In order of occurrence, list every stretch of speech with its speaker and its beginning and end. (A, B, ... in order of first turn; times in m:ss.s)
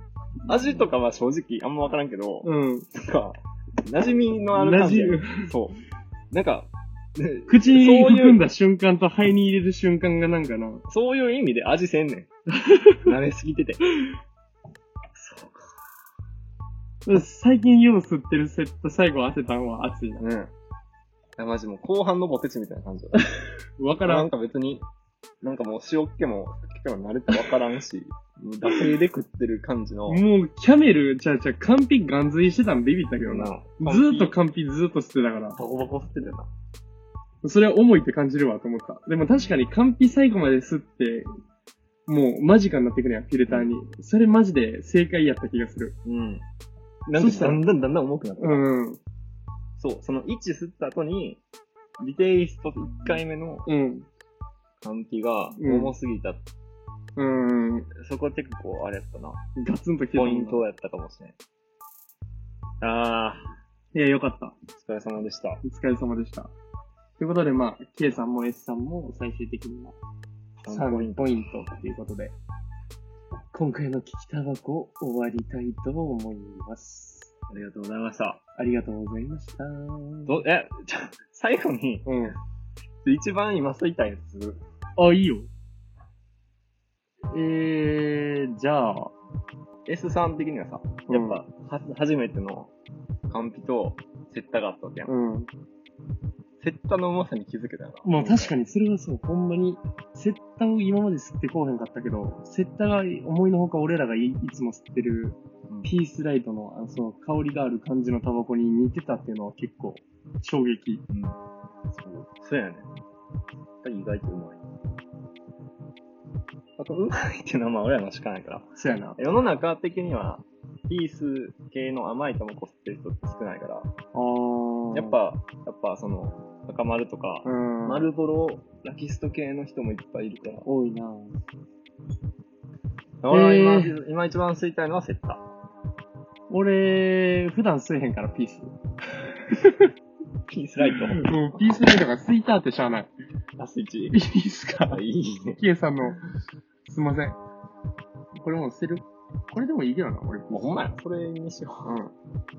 0:00.5-0:05.8 A
0:02.4-0:02.9 B
0:04.5-0:05.5 B
0:06.3-0:08.4 A
0:07.5-0:10.8 B
0:10.9-0:12.3 A
0:12.6-0:13.0 B
0:13.0-0:13.8 A
0:15.2-0:15.7 A
0:17.1-0:20.2 B
0:20.2-0:20.5 A
0:21.4-0:23.3 A
0:23.8-0:24.3 B
0:24.0-0:24.9 A
0:25.4-0:30.2 A
0:30.1-0:35.6 B
0:33.2-0:34.4 A
0:35.6-0:36.5 A
0:37.4-0:41.3 B
0:42.1-0:46.0 B
0:46.0-0:46.5 A
0:47.1-0:48.6 A
0:47.1-0:47.6 B
0:48.4-0:49.0 B
0:49.8-0:51.4 A
0:52.0-0:53.7 A
0:53.7-0:54.1 B
0:54.8-0:56.4 A
0:55.6-0:55.9 B
0:57.2-0:57.9 B
0:57.9-0:59.4 A
0:59.6-1:00.6 B
1:00.1-1:01.4 A
1:02.8-1:03.6 A
1:03.9-1:04.6 B
1:04.8-1:05.6 A
1:05.6-1:06.5 B
1:07.2-1:10.0 B
1:10.6-1:11.3 A
1:10.7-1:12.4 B
1:13.5-1:17.3 B
1:17.5-1:18.4 A
1:18.6-1:20.4 B
1:20.3-1:22.2 A
1:22.0-1:22.4 B
1:23.0-1:24.6 A
1:25.0-1:25.5 B
1:27.3-1:29.1 B
1:29.9-1:32.7 A
1:31.1-1:31.4 B
1:33.3-1:35.1 A
1:35.1-1:35.5 B
1:36.6-1:38.5 A
1:38.0-1:51.0 B
1:51.1-1:51.4 A
1:51.9-1:52.9 A
1:53.8-1:54.6 A
1:56.8-2:03.9 A
1:58.8-1:59.2 B
2:04.1-2:05.2 B
2:04.9-2:10.7 A
2:07.4-2:08.1 B
2:10.6-2:11.4 B
2:13.2-2:15.4 A
2:13.3-2:14.0 B
2:16.5-2:18.7 B
2:19.5-2:19.9 B
2:20.5-2:21.2 A
2:20.8-2:23.1 B
2:23.6-2:24.2 A
2:24.1-2:25.0 B
2:24.9-2:25.6 A
2:25.6-2:26.2 B
2:26.9-2:27.4 B
2:28.4-2:30.8 B
2:30.5-2:31.9 A
2:31.8-2:32.1 B